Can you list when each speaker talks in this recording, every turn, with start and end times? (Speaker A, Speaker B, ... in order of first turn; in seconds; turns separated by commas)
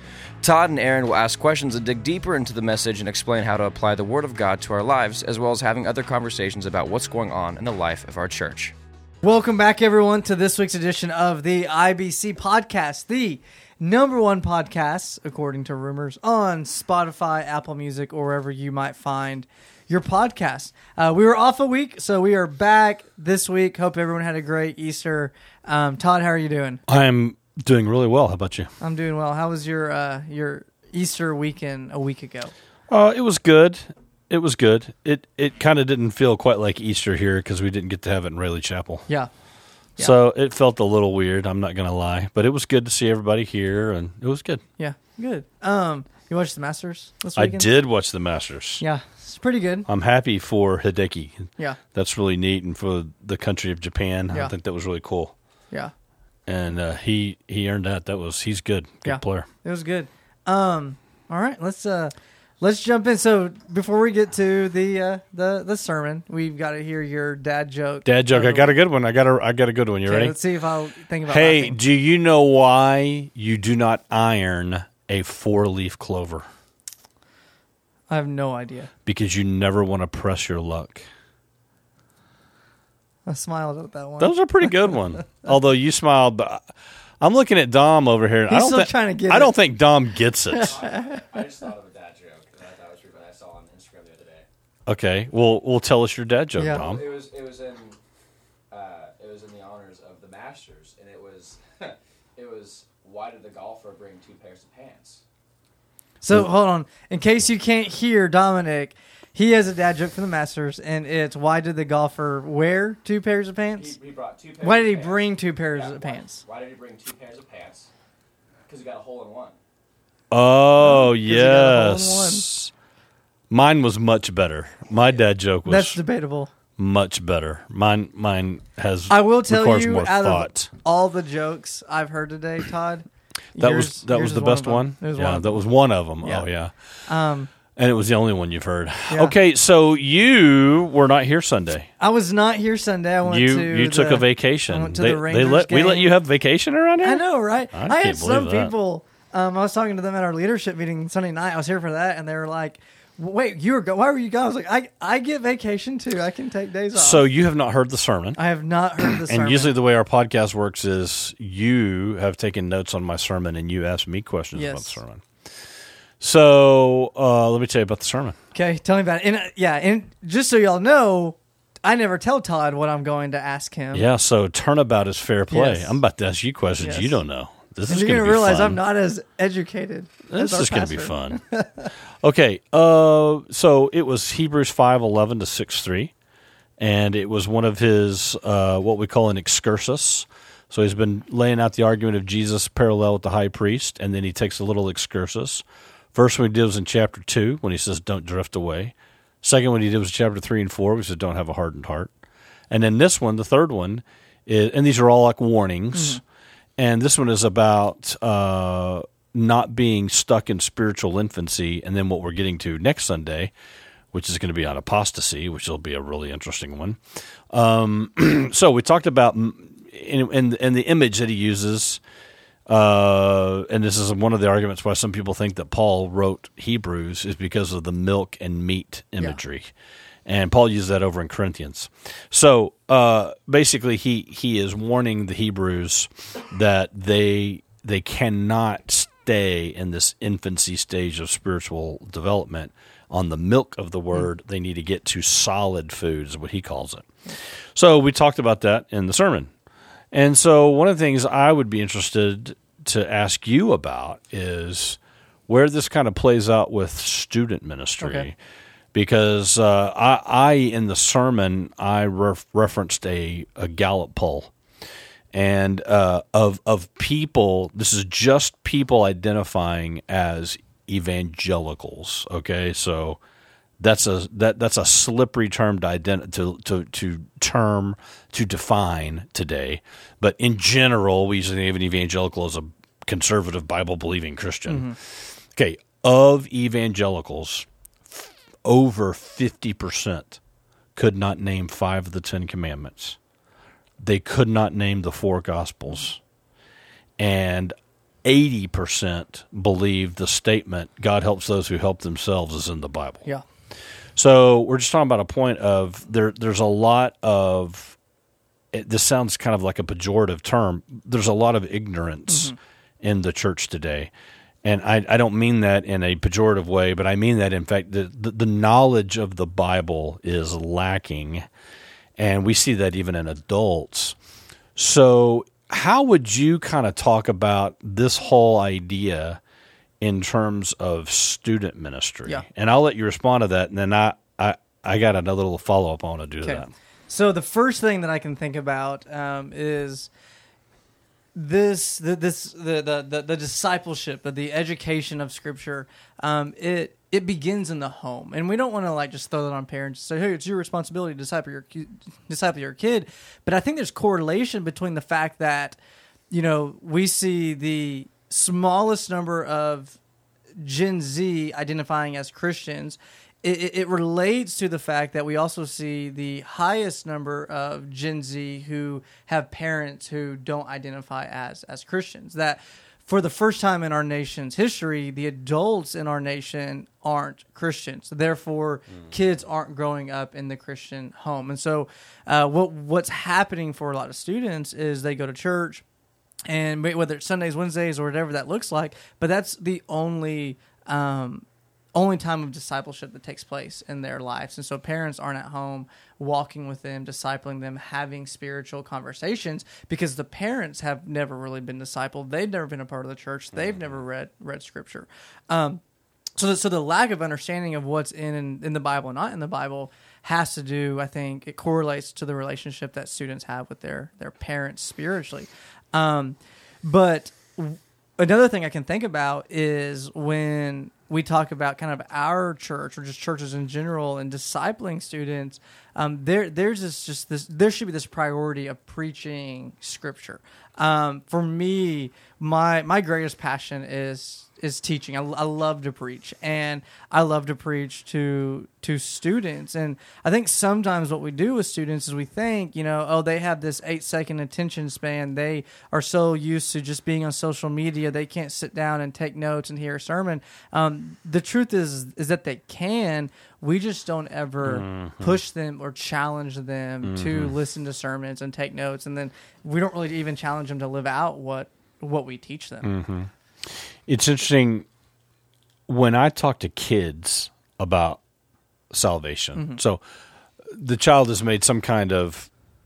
Speaker A: 0.4-8.8, Speaker B: 9.2-26.8, Speaker C: 26.9-28.7, Speaker B: 28.8-32.5, Speaker C: 32.9-39.1, Speaker C: 40.0-44.6, Speaker B: 44.8-47.7, Speaker C: 47.4-48.8, Speaker B: 48.8-49.9, Speaker C: 49.9-55.3, Speaker C: 56.5-59.5, Speaker B: 59.0-68.7, Speaker C: 68.0-70.4, Speaker B: 70.0-71.8, Speaker C: 71.3-76.5, Speaker B: 78.1-78.9, Speaker C: 79.1-81.0, Speaker B: 83.3-85.0, Speaker C: 84.2-86.7, Speaker C: 87.2-90.8, Speaker B: 88.5-89.5, Speaker B: 90.5-91.4, Speaker A: 90.6-94.5, Speaker C: 94.9-97.1, Speaker B: 96.6-96.8, Speaker A: 96.6-98.0, Speaker A: 98.7-105.2, Speaker B: 106.2-114.0, Speaker A: 113.8-117.9, Speaker B: 114.6-116.4, Speaker A: 118.7-119.6, Speaker C: 120.3-122.7, Speaker B: 120.8-122.5, Speaker C: 123.5-126.0, Speaker B: 125.6-126.5, Speaker C: 126.8-130.7, Speaker B: 129.1-135.7, Speaker C: 133.6-137.0, Speaker B: 136.2-136.5, Speaker B: 137.1-137.5, Speaker C: 137.8-141.9, Speaker B: 139.1-139.4, Speaker B: 142.0-146.2, Speaker C: 143.2-148.7, Speaker B: 147.0-157.3, Speaker C: 156.9-158.4, Speaker B: 158.4-159.7, Speaker C: 159.0-165.5, Speaker B: 164.6-165.0, Speaker C: 166.2-168.3, Speaker B: 168.5-174.1, Speaker C: 173.9-178.8, Speaker B: 175.5-176.0, Speaker B: 176.8-177.2, Speaker B: 177.9-181.9, Speaker C: 180.3-181.4, Speaker C: 182.2-186.1, Speaker C: 186.8-202.1, Speaker C: 202.7-206.2, Speaker B: 205.9-206.2, Speaker C: 206.8-213.5, Speaker C: 214.1-217.0, Speaker C: 217.5-222.0, Speaker C: 222.7-229.7, Speaker C: 230.3-247.1, Speaker C: 247.8-249.5, Speaker C: 250.1-258.4, Speaker B: 258.0-258.3, Speaker C: 258.9-264.5, Speaker C: 265.3-273.2, Speaker C: 273.8-290.4, Speaker B: 284.7-285.0, Speaker C: 291.0-293.2, Speaker C: 294.0-296.2, Speaker C: 297.2-303.3, Speaker C: 304.2-308.0, Speaker C: 308.7-314.1, Speaker B: 312.3-312.6, Speaker C: 314.6-321.4, Speaker C: 322.2-324.2, Speaker C: 324.8-329.4, Speaker C: 330.0-336.7, Speaker B: 336.4-340.1, Speaker B: 341.4-355.8, Speaker B: 356.3-360.0, Speaker B: 360.6-385.8, Speaker B: 386.5-405.8, Speaker B: 406.4-462.9, Speaker C: 454.6-455.4, Speaker C: 457.0-457.6, Speaker C: 462.8-463.3, Speaker C: 464.1-464.9, Speaker C: 465.9-468.2, Speaker C: 468.9-470.0, Speaker C: 470.7-472.5